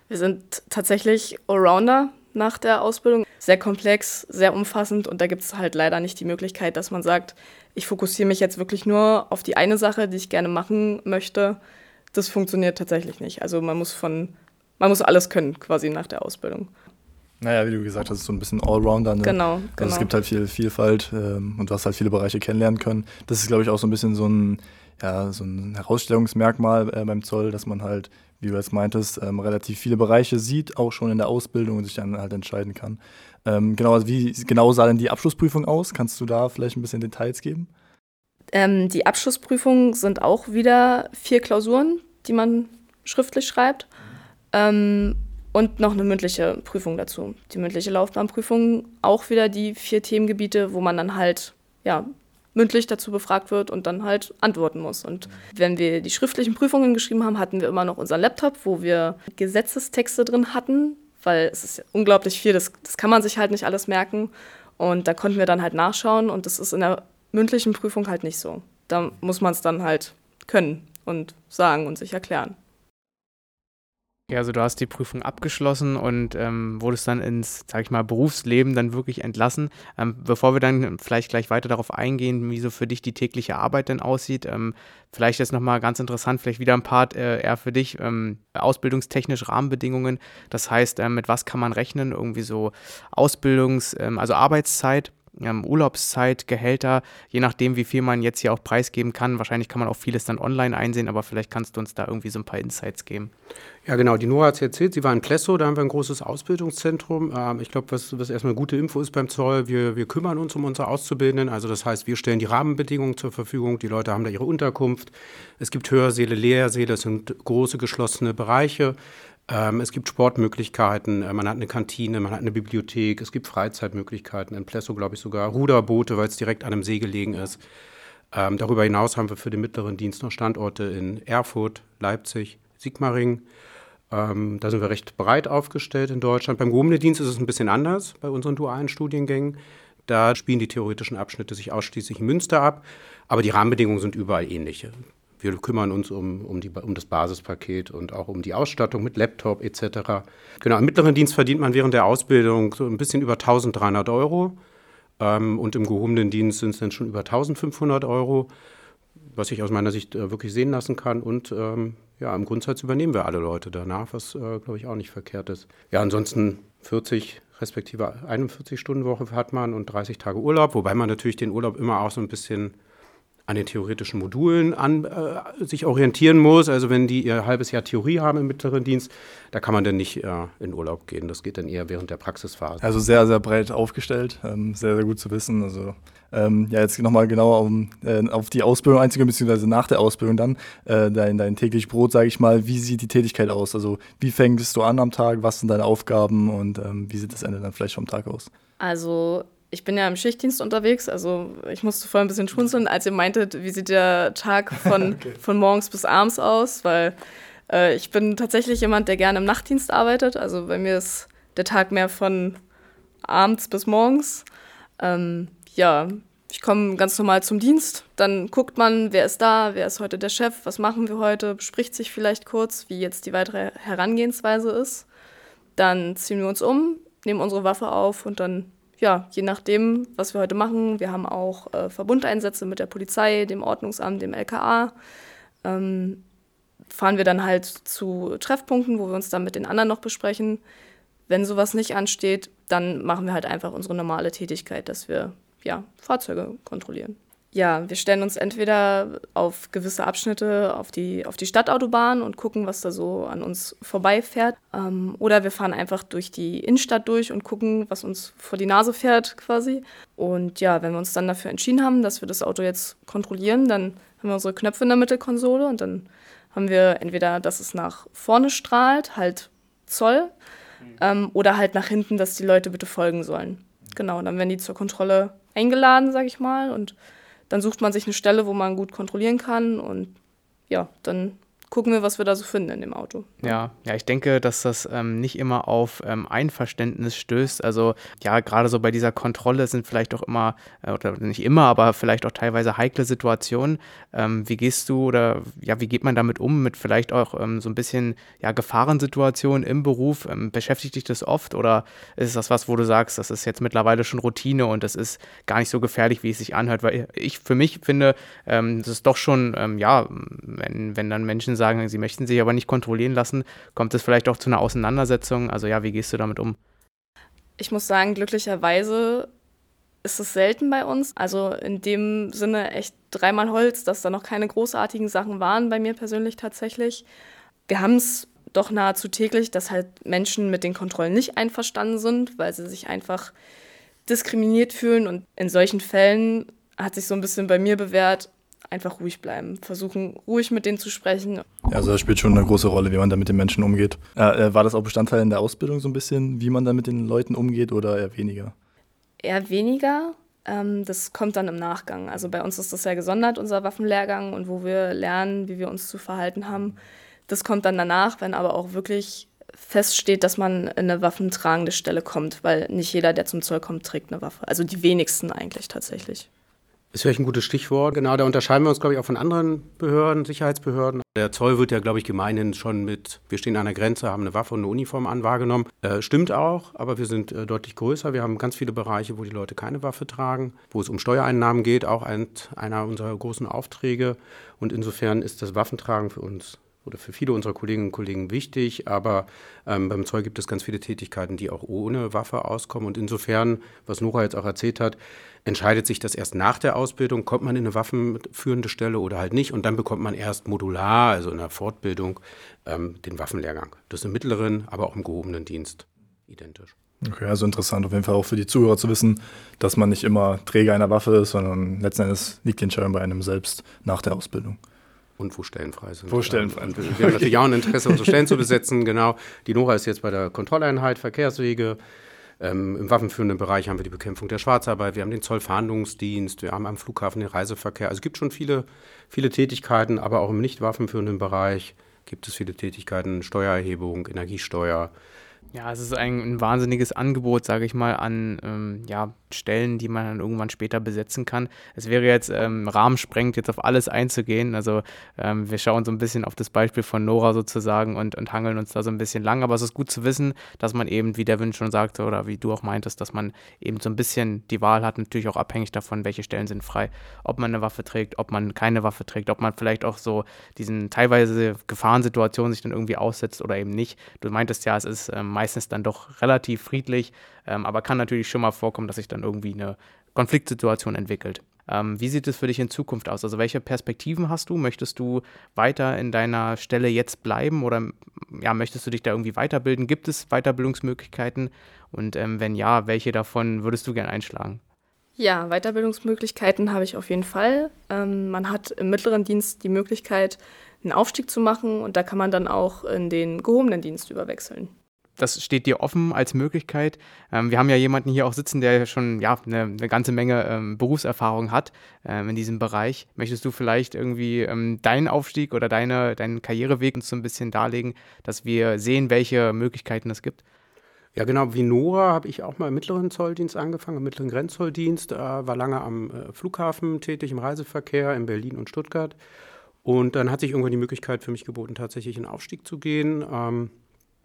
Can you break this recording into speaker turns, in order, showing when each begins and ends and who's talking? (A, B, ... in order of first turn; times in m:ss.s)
0:00.1-0:11.6 A
0:12.1-0:16.7 A
0:17.4-0:37.7 B
0:19.2-0:20.1 A
0:38.5-0:43.9 A
0:44.5-1:12.6 A
1:14.3-1:43.3 C
1:43.8-1:59.0 D
1:59.5-2:07.6 D
2:08.3-2:13.4 D
2:14.1-2:34.6 D
2:35.2-2:38.5 D
2:39.3-2:52.8 D
2:53.5-3:02.8 D
3:02.8-3:18.5 B
3:18.8-3:27.2 A
3:27.7-3:32.6 A
3:33.2-3:34.4 A
3:35.0-3:45.1 A
3:45.8-3:55.0 A
3:55.6-3:56.2 A
3:56.9-4:00.6 A
4:01.3-4:30.3 A
4:31.0-4:37.0 A
4:37.5-4:40.2 A
4:40.7-4:43.6 A
4:43.4-5:16.6 C
5:17.6-5:19.3 A
5:20.0-5:27.0 A
5:27.7-5:33.3 A
5:34.1-5:41.4 A
5:41.7-5:48.5 B
5:49.2-6:06.3 A
6:06.9-6:46.8 D
6:47.0-6:54.6 B
6:55.2-7:01.8 D
6:56.1-6:58.2 B
7:02.4-7:14.9 D
7:15.5-8:04.6 C
8:05.2-8:14.7 A
8:15.2-8:30.4 C
8:31.2-8:39.2 D
8:39.8-8:43.7 D